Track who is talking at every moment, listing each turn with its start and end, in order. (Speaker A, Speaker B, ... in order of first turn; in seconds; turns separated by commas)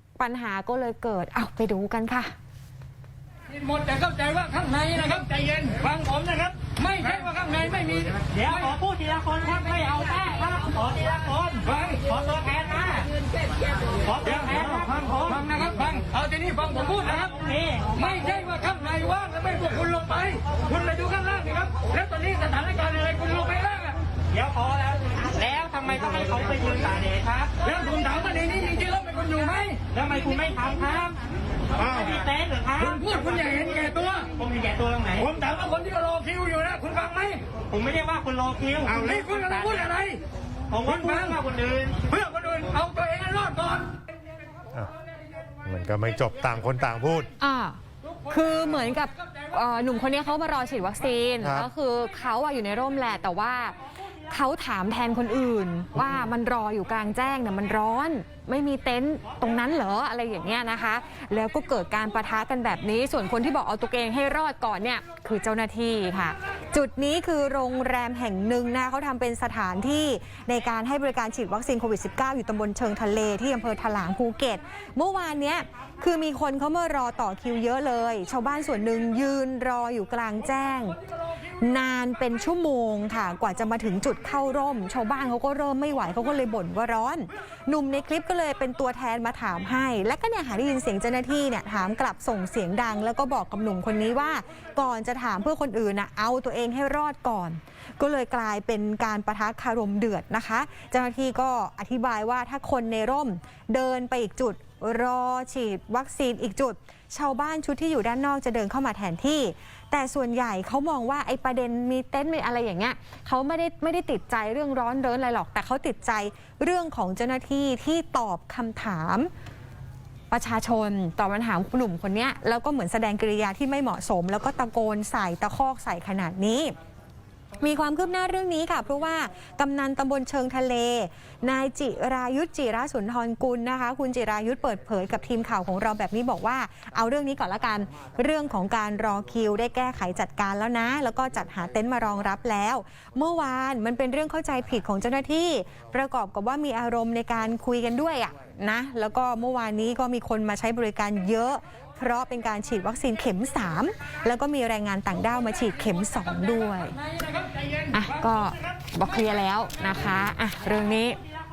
Speaker A: 0.2-2.3, Speaker B: 3.5-8.7, Speaker C: 8.3-13.1, Speaker B: 11.7-12.0, Speaker C: 14.0-15.4, Speaker B: 14.3-14.6, Speaker B: 15.3-17.3, Speaker C: 17.0-18.1, Speaker B: 18.0-24.0, Speaker C: 24.3-27.6, Speaker B: 27.6-29.8, Speaker C: 29.9-33.2, Speaker B: 32.8-34.3, Speaker C: 34.3-35.3, Speaker B: 35.2-37.4, Speaker C: 37.6-39.9, Speaker B: 38.9-40.2, Speaker C: 40.7-42.0, Speaker B: 40.9-41.3, Speaker B: 42.1-43.9, Speaker D: 45.6-47.3, Speaker A: 47.4-53.8, Speaker D: 51.4-51.7, Speaker A: 54.3-81.0, Speaker A: 81.5-119.3, Speaker A: 120.3-126.7, Speaker A: 127.6-157.0, Speaker A: 157.9-161.2